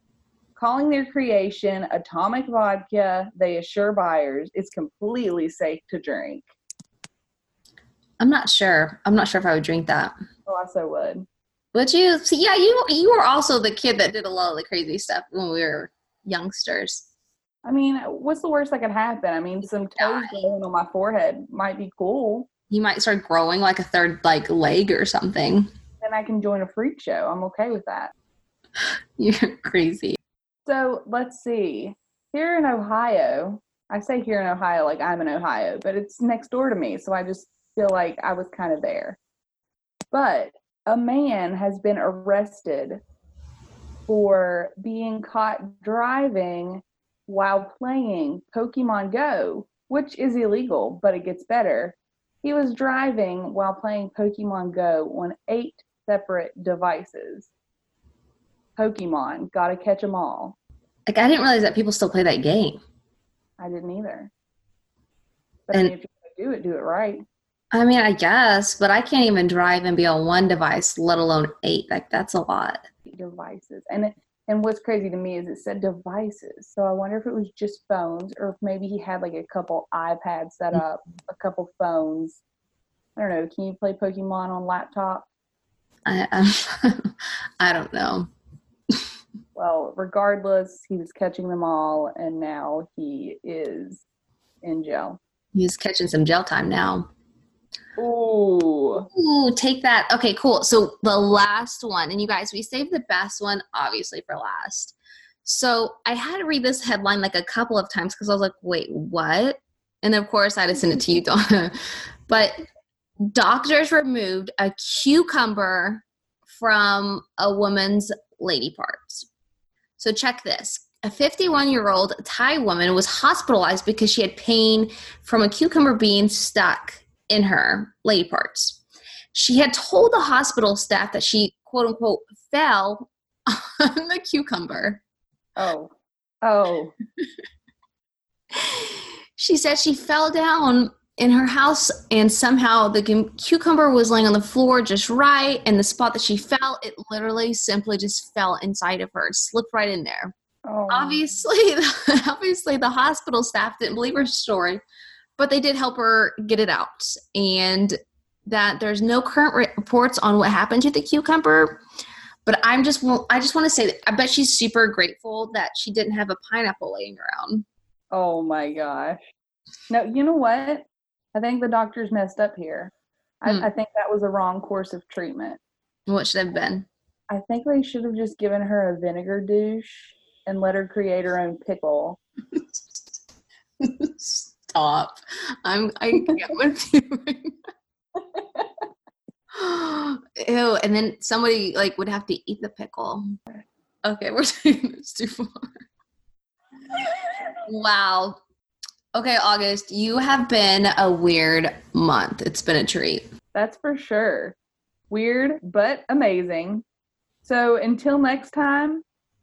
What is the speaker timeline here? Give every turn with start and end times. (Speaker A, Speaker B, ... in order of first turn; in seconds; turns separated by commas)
Speaker A: 0.6-6.5, Speaker B: 8.2-10.1, Speaker A: 10.5-11.3, Speaker B: 11.7-17.1, Speaker A: 17.6-22.5, Speaker B: 20.0-20.4, Speaker B: 22.7-25.7, Speaker A: 26.0-28.1, Speaker B: 29.2-30.2, Speaker A: 30.6-39.2, Speaker A: 40.1-43.0, Speaker A: 44.1-57.5, Speaker A: 58.8-60.6, Speaker B: 61.1-62.8, Speaker A: 63.6-64.3, Speaker A: 65.7-67.2, Speaker B: 67.7-72.8, Speaker A: 73.0-82.4, Speaker A: 83.2-85.3, Speaker B: 86.1-88.3, Speaker A: 89.5-94.0, Speaker A: 94.6-95.2, Speaker B: 95.5-97.1, Speaker A: 98.0-99.1, Speaker B: 99.1-111.7, Speaker B: 112.3-112.6, Speaker B: 113.3-119.3, Speaker B: 120.0-128.8, Speaker B: 129.3-135.0, Speaker A: 135.6-136.9, Speaker B: 138.5-150.3, Speaker A: 150.7-151.3, Speaker B: 150.9-154.8, Speaker B: 155.4-158.0, Speaker B: 158.5-161.8, Speaker B: 162.5-167.7, Speaker A: 168.1-169.2, Speaker A: 169.9-175.6, Speaker B: 176.1-176.9, Speaker A: 177.3-182.2, Speaker B: 183.8-187.5, Speaker B: 189.6-193.2, Speaker B: 194.1-195.8, Speaker B: 197.7-198.4, Speaker B: 199.2-203.3, Speaker A: 203.5-204.6, Speaker A: 205.1-206.8, Speaker A: 207.4-209.0